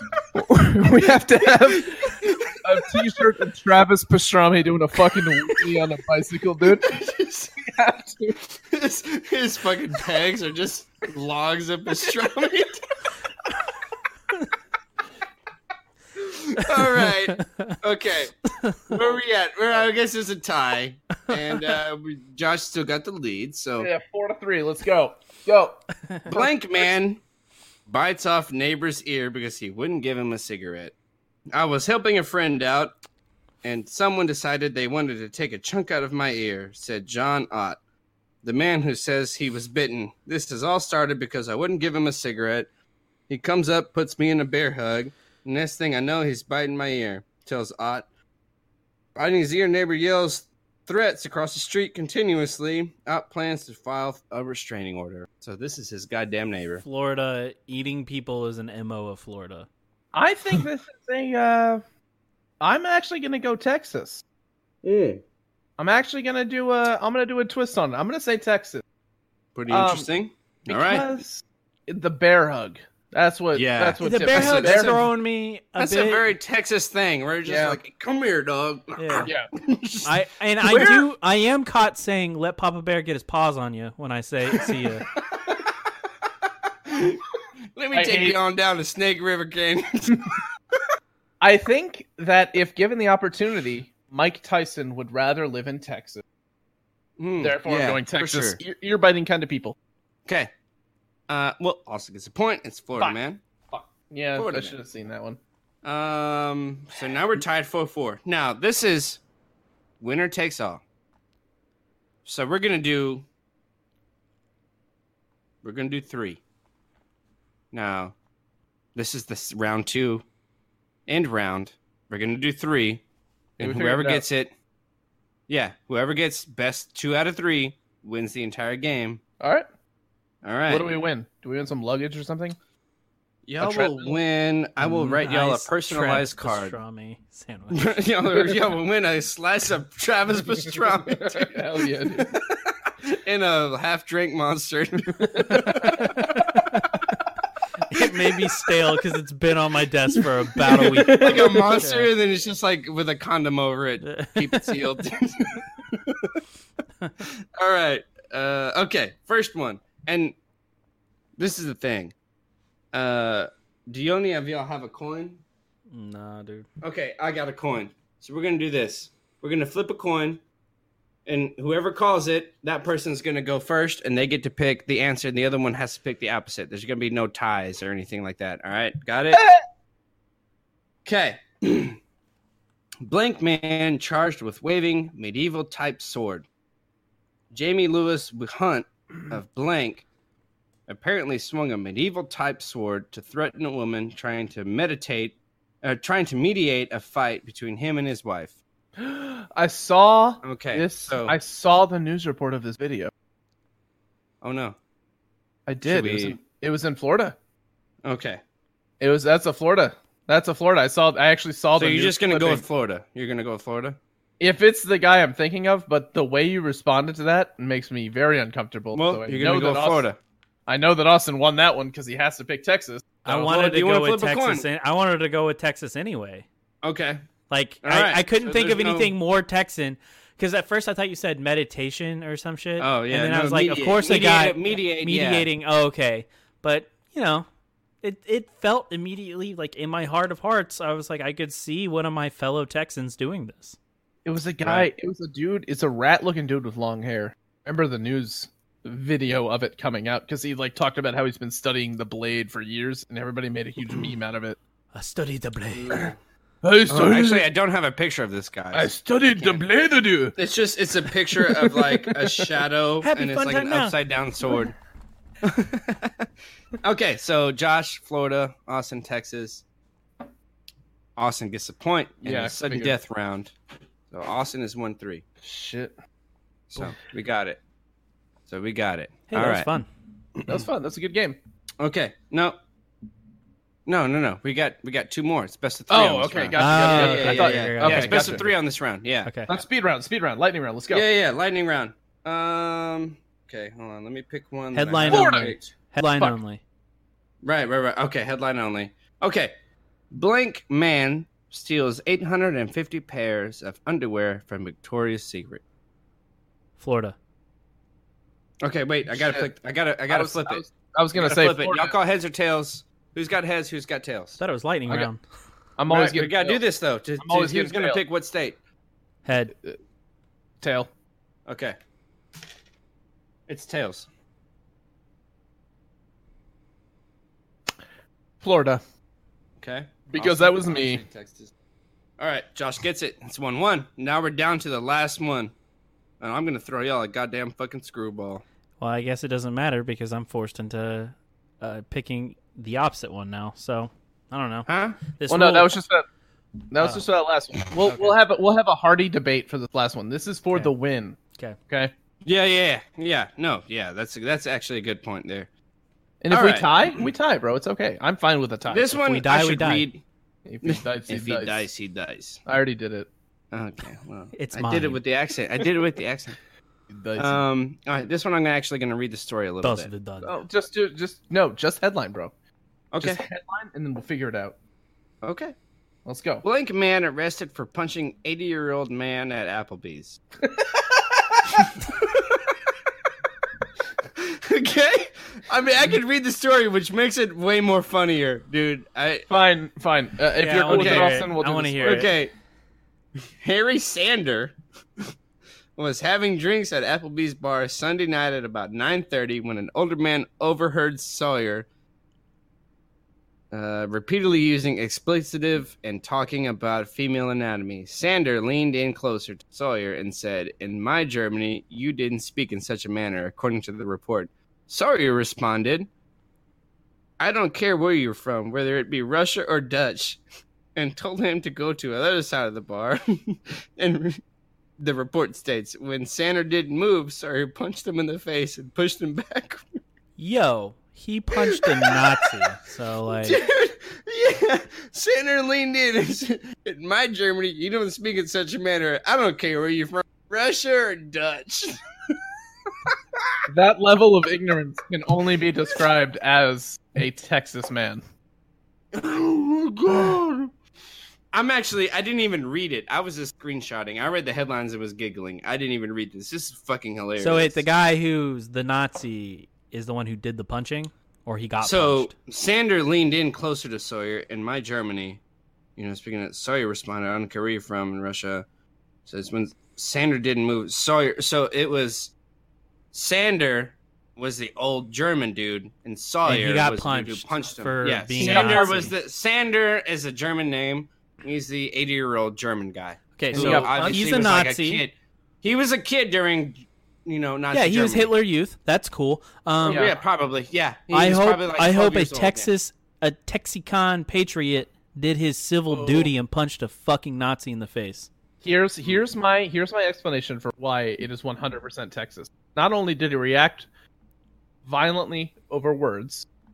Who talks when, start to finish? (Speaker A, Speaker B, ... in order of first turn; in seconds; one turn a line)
Speaker A: 0.3-6.9
Speaker B: 1.6-3.2
Speaker B: 5.3-5.6
Speaker B: 6.7-7.5
Speaker A: 7.6-8.4
Speaker B: 8.6-12.9
Speaker B: 16.1-18.3
Speaker C: 16.6-17.8
Speaker C: 18.6-18.9
Speaker B: 18.8-23.9
Speaker A: 23.8-26.5
Speaker B: 26.3-27.2
Speaker B: 27.9-30.9
Speaker B: 31.5-32.9
Speaker B: 33.6-37.8
Speaker B: 38.4-42.7
Speaker B: 43.3-48.0
Speaker B: 49.1-56.8
Speaker C: 56.8-59.7
Speaker A: 60.1-61.8
Speaker A: 62.6-64.2
Speaker B: 64.8-65.2
Speaker A: 65.8-68.8
Speaker B: 69.5-71.1
Speaker A: 69.7-70.1
Speaker A: 70.7-75.0
Speaker B: 73.5-75.1
Speaker C: 74.0-76.2
Speaker B: 75.8-80.1
Speaker A: 77.5-77.8
Speaker C: 79.0-79.3
Speaker A: 79.2-79.5
Speaker C: 80.0-85.1
Speaker A: 80.7-81.0
Speaker B: 80.7-81.0
Speaker B: 86.9-87.2
Speaker B: 87.7-90.4
Speaker A: 87.9-88.4
Speaker A: 91.4-96.2
Speaker B: 97.2-98.6
Speaker A: 97.4-99.8
Speaker B: 100.2-100.5
Speaker B: 101.3-103.4
Speaker A: 103.7-105.4
Speaker B: 104.3-104.8
Speaker B: 105.8-109.2
Speaker B: 110.0-110.8
Speaker B: 112.2-113.2
Speaker B: 115.6-116.4
Speaker B: 117.7-118.1
Speaker B: 118.9-120.2
Speaker B: 121.1-123.0
Speaker B: 123.6-124.5
Speaker A: 123.6-124.2
Speaker B: 125.5-129.2
Speaker A: 129.4-129.7
Speaker B: 130.4-130.9
Speaker A: 130.7-132.6
Speaker B: 133.5-136.7
Speaker A: 133.6-134.2
Speaker C: 134.8-137.9
Speaker B: 137.7-146.3
Speaker A: 141.1-142.4
Speaker A: 145.3-145.7
Speaker C: 145.5-147.0
Speaker C: 147.9-152.1
Speaker A: 150.6-151.7
Speaker B: 151.1-156.4
Speaker C: 154.0-154.8
Speaker B: 157.2-160.3
Speaker B: 161.4-162.1
Speaker B: 162.9-165.4
Speaker C: 165.9-166.7
Speaker B: 166.8-170.4
Speaker B: 171.2-179.4
Speaker B: 181.1-182.0
Speaker B: 183.0-186.5
Speaker B: 187.5-190.1
Speaker B: 190.9-198.6
Speaker A: 199.0-203.1
Speaker B: 200.4-201.4
Speaker B: 204.4-204.8
Speaker A: 205.7-207.3
Speaker B: 205.8-206.4
Speaker B: 208.0-208.4
Speaker A: 209.0-212.6
Speaker B: 211.8-214.0
Speaker A: 214.4-220.1
Speaker B: 218.9-220.2
Speaker A: 220.7-223.1
Speaker C: 223.2-226.4
Speaker B: 223.2-224.7
Speaker B: 226.8-227.2
Speaker C: 227.5-237.4
Speaker B: 227.8-229.1
Speaker B: 232.8-235.5
Speaker C: 238.0-243.8
Speaker A: 244.2-254.6
Speaker B: 244.6-244.9
Speaker C: 254.9-256.1
Speaker B: 255.8-256.1
Speaker A: 256.6-257.5
Speaker B: 256.9-259.6
Speaker A: 258.7-260.4
Speaker B: 260.4-264.7
Speaker A: 261.3-262.5
Speaker C: 263.0-263.9
Speaker B: 265.4-266.3
Speaker B: 266.8-269.6
Speaker B: 271.2-273.5
Speaker A: 272.2-272.9
Speaker B: 274.1-275.2
Speaker A: 275.4-275.9
Speaker B: 276.7-277.6
Speaker B: 278.5-279.7
Speaker C: 279.3-279.9
Speaker B: 280.4-280.6
Speaker A: 280.4-281.4
Speaker B: 281.8-282.6
Speaker B: 283.9-289.6
Speaker A: 285.9-288.5
Speaker C: 286.6-288.4
Speaker C: 289.2-289.5
Speaker A: 289.5-291.1
Speaker B: 290.9-295.7
Speaker C: 294.7-296.6
Speaker A: 295.1-296.4
Speaker B: 297.4-299.5
Speaker B: 300.1-305.6
Speaker C: 306.8-307.1
Speaker B: 308.6-310.6
Speaker A: 309.1-309.5
Speaker A: 310.1-311.9
Speaker B: 311.1-314.4
Speaker C: 314.4-315.2
Speaker A: 315.8-316.6
Speaker B: 315.9-318.6
Speaker A: 317.2-318.0
Speaker C: 319.2-319.5
Speaker A: 320.6-320.9
Speaker B: 321.5-321.8
Speaker B: 323.5-324.1
Speaker A: 328.4-328.8
Speaker B: 329.6-331.5
Speaker A: 330.1-331.0
Speaker B: 332.2-335.5
Speaker B: 336.2-338.4
Speaker C: 338.8-345.7
Speaker B: 344.7-345.0
Speaker A: 345.3-346.1
Speaker A: 346.7-351.2
Speaker B: 352.2-355.5
Speaker A: 356.2-359.0
Speaker B: 356.3-356.9
Speaker B: 358.7-360.0
Speaker C: 359.0-359.9
Speaker A: 360.4-361.7
Speaker B: 360.6-362.4
Speaker A: 362.4-363.1
Speaker B: 363.5-366.4
Speaker C: 364.3-365.0
Speaker A: 366.9-367.4
Speaker B: 367.2-369.9
Speaker C: 369.6-370.3
Speaker A: 370.2-372.3
Speaker B: 372.9-373.2
Speaker A: 373.0-374.5
Speaker B: 375.2-375.5
Speaker A: 376.0-376.4
Speaker B: 376.4-380.2
Speaker A: 380.4-381.4
Speaker B: 381.6-382.6
Speaker B: 384.1-389.3
Speaker A: 389.3-392.0
Speaker C: 390.4-392.1
Speaker B: 390.7-391.2
Speaker B: 391.8-392.3
Speaker B: 393.2-395.1
Speaker B: 395.8-401.7
Speaker B: 403.5-415.9
Speaker B: 417.2-420.2
Speaker B: 420.7-424.2
Speaker B: 424.8-429.8
Speaker C: 430.2-433.4
Speaker B: 431.3-432.3
Speaker B: 433.1-442.2
Speaker B: 442.8-443.4
Speaker A: 443.5-448.0
Speaker B: 448.9-450.5
Speaker B: 451.3-457.6
Speaker C: 457.2-462.1
Speaker B: 461.6-465.2
Speaker B: 465.8-468.4
Speaker B: 469.1-472.1
Speaker B: 472.9-488.1
Speaker C: 476.2-478.9
Speaker A: 478.2-478.9
Speaker C: 483.2-484.8
Speaker A: 483.3-484.3
Speaker C: 487.5-489.9
Speaker B: 489.6-492.5
Speaker A: 489.6-489.9
Speaker C: 490.9-498.1
Speaker A: 495.7-496.1
Speaker A: 498.4-503.7
Speaker A: 504.6-506.3